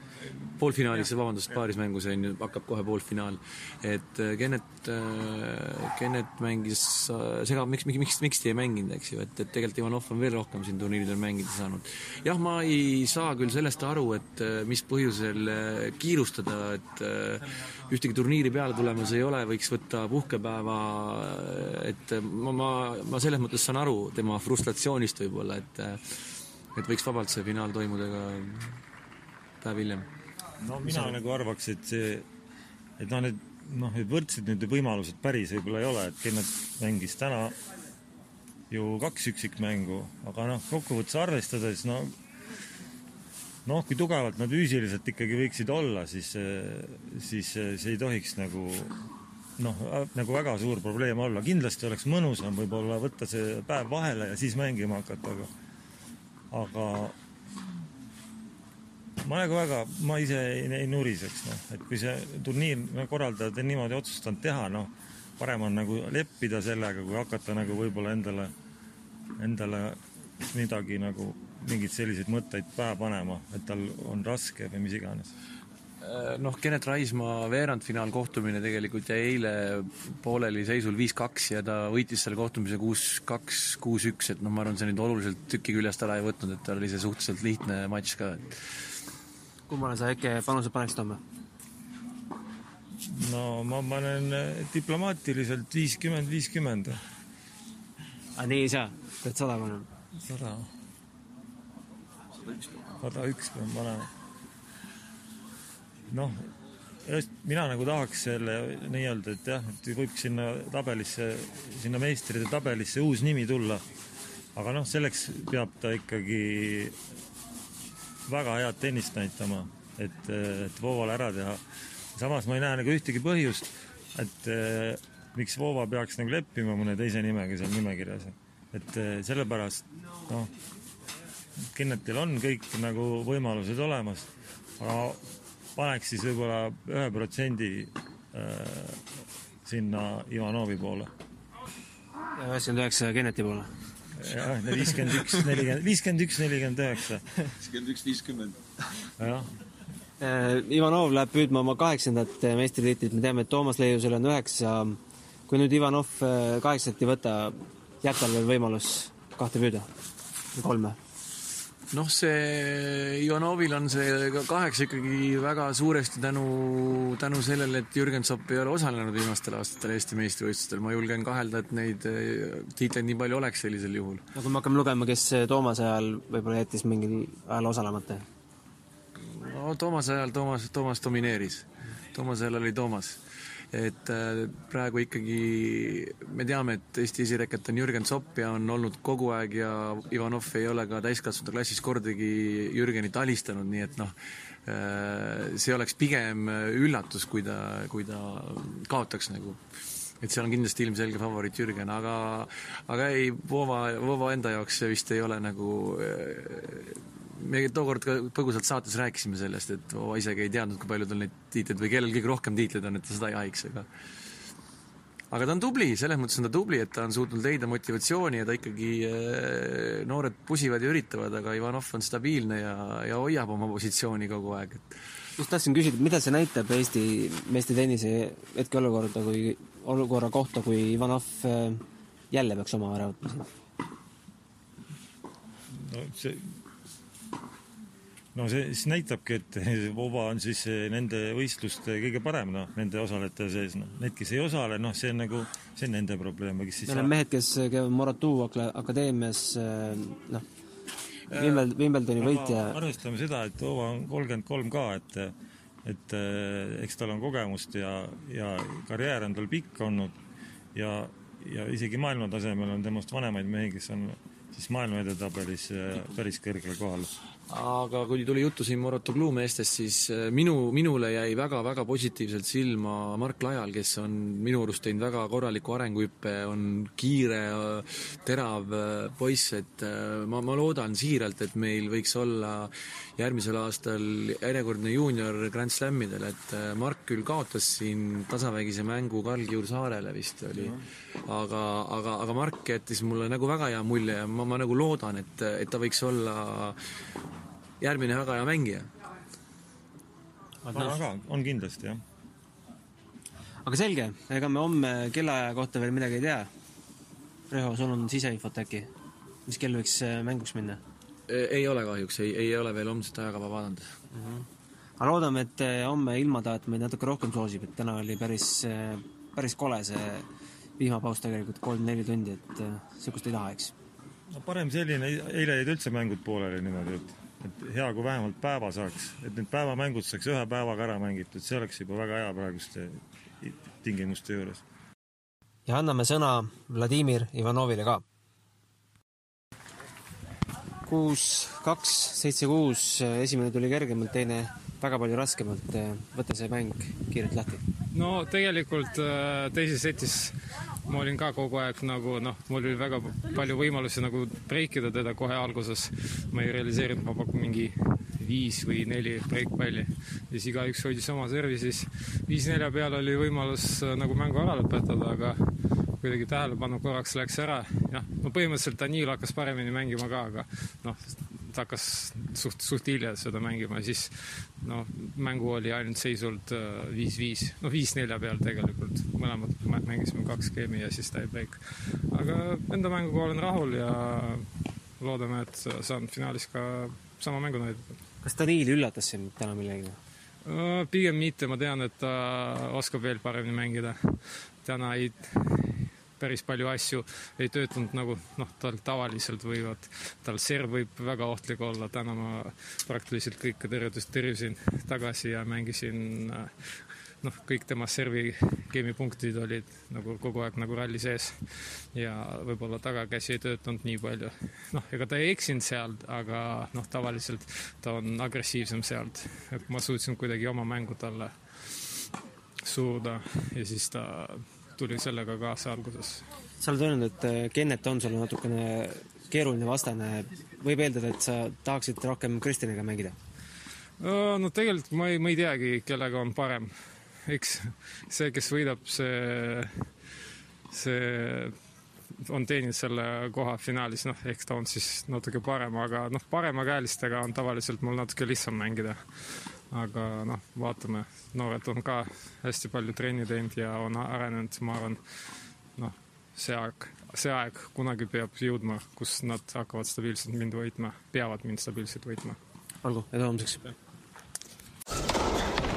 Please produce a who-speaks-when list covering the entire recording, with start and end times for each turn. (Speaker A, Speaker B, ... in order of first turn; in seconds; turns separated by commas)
Speaker A: 0.6-28.8, Speaker A: 29.6-30.1, Speaker B: 30.6-32.3, Speaker B: 33.0-37.6, Speaker B: 38.7-42.1, Speaker B: 43.6-49.0, Speaker B: 49.6-55.5, Speaker B: 56.5-57.2, Speaker B: 59.2-68.5, Speaker B: 69.4-75.3, Speaker A: 76.0-88.6, Speaker C: 89.7-91.2, Speaker B: 93.0-97.0, Speaker C: 98.4-99.9, Speaker B: 100.2-100.7, Speaker B: 103.0-104.1, Speaker B: 106.1-106.5, Speaker B: 107.1-113.8, Speaker B: 114.6-117.0, Speaker B: 118.3-121.6, Speaker B: 122.2-130.5, Speaker B: 131.7-134.3, Speaker B: 134.8-135.2, Speaker B: 135.8-139.0, Speaker B: 139.7-141.1, Speaker C: 142.4-143.7, Speaker B: 144.2-147.5, Speaker B: 149.2-149.5, Speaker C: 150.2-159.9, Speaker C: 160.6-161.0, Speaker A: 161.9-174.2, Speaker C: 174.3-178.3, Speaker A: 179.2-183.2, Speaker A: 183.7-194.1, Speaker A: 194.7-199.6, Speaker A: 200.2-213.9, Speaker A: 215.3-224.9, Speaker C: 225.4-233.5, Speaker B: 235.7-236.6, Speaker B: 238.3-247.1, Speaker C: 246.8-250.4, Speaker C: 251.3-252.8, Speaker B: 252.2-255.3, Speaker B: 255.8-260.1, Speaker B: 260.8-267.1, Speaker A: 267.5-296.8, Speaker A: 297.8-298.9, Speaker C: 300.7-301.0, Speaker B: 300.7-302.0, Speaker C: 303.6-306.5, Speaker C: 307.5-308.9, Speaker C: 309.5-310.8, Speaker A: 311.3-313.9, Speaker C: 314.1-314.5, Speaker C: 315.0-320.3, Speaker C: 320.8-323.7, Speaker B: 324.3-334.6, Speaker C: 335.7-338.0, Speaker C: 340.9-347.6, Speaker D: 347.9-350.4, Speaker D: 350.9-365.5, Speaker D: 366.0-384.5, Speaker D: 385.0-388.0, Speaker C: 388.2-390.0, Speaker D: 390.5-406.5, Speaker D: 407.2-411.4, Speaker D: 411.9-422.0, Speaker D: 422.6-426.2, Speaker C: 426.6-433.2, Speaker D: 434.0-436.7, Speaker D: 437.3-439.9, Speaker D: 440.7-441.5, Speaker D: 442.2-455.0, Speaker D: 455.8-462.4, Speaker C: 462.8-463.7